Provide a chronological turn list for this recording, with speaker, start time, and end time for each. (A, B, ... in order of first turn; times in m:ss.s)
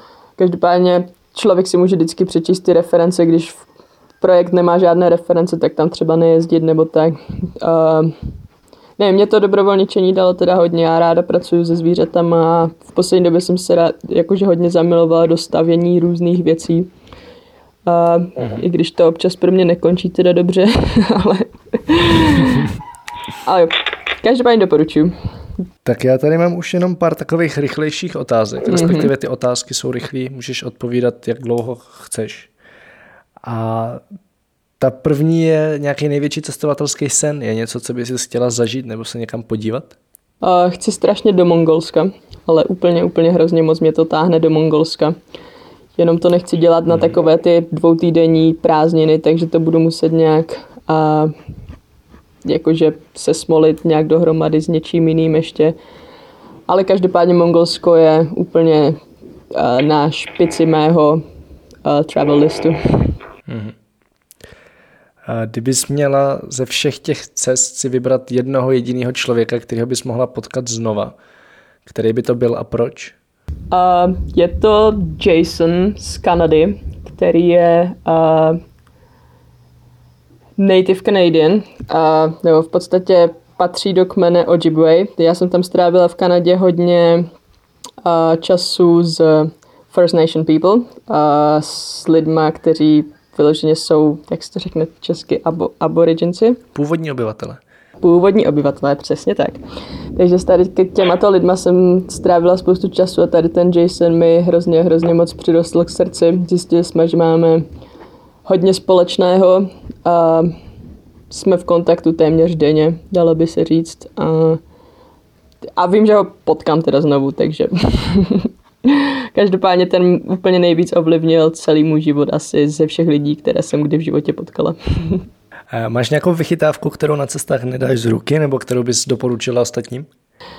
0:00.4-0:03.6 A
0:04.2-0:08.1 A
0:09.0-0:16.9 A
0:17.9-0:22.7 A
0:23.4-0:25.1 A
0:25.8-0:32.5 B
0:28.7-0:29.1 A
0:33.4-0:34.0 B
0:34.8-0:40.0 B
0:40.4-0:45.2 A
0:46.0-0:51.3 A
0:52.4-0:55.8 A
0:56.7-0:59.0 A
0:59.5-1:01.2 A
1:01.8-1:03.1 A
1:03.5-1:03.8 B
1:05.3-1:11.2 B
1:11.9-1:13.2 B
1:13.7-1:18.6 A
1:20.6-1:27.3 A
1:28.0-1:36.6 A
1:36.7-1:37.6 B
1:38.0-1:39.6 A
1:40.2-1:47.6 A
1:48.5-1:50.6 A
1:51.3-1:54.6 A
1:55.8-2:05.2 A
2:05.7-2:10.1 B